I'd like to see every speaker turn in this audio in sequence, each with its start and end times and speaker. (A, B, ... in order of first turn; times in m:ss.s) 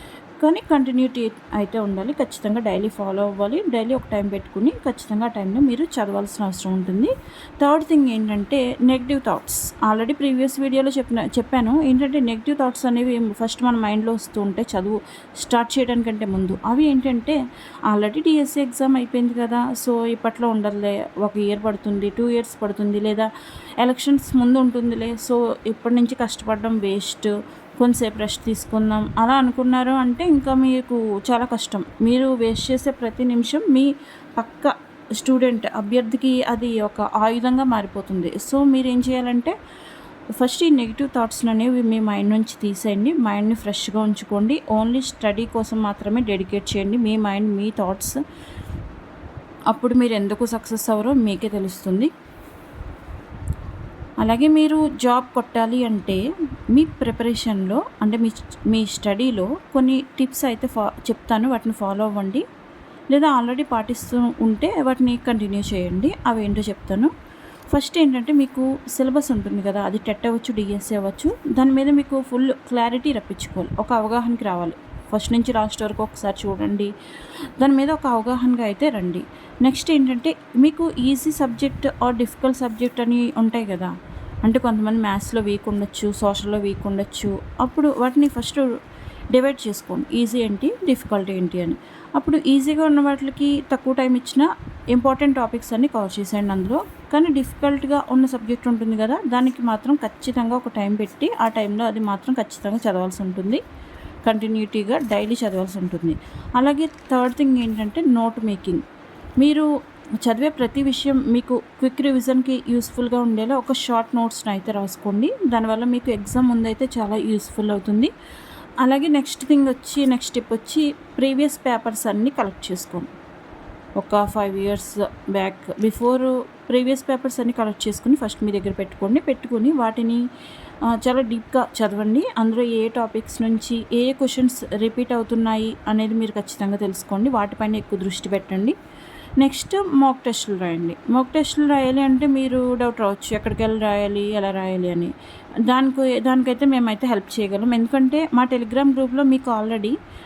0:00.4-0:17.4 A
0:17.9-0:23.3 A
0:23.8-0:39.5 A
0:40.4-0:48.2 A
0:49.7-0:52.1 A
0:54.2-1:02.4 A
1:03.1-1:07.1 A
1:07.7-1:16.9 A
1:17.6-1:23.9 A
1:24.4-1:28.8 A
1:29.3-1:43.6 A
1:44.2-1:48.8 A
1:49.4-1:49.7 A
1:50.2-1:58.1 A
1:58.8-2:03.1 A
2:04.0-2:10.2 A
2:10.9-2:18.8 A
2:19.4-2:25.1 A
2:25.6-2:30.0 A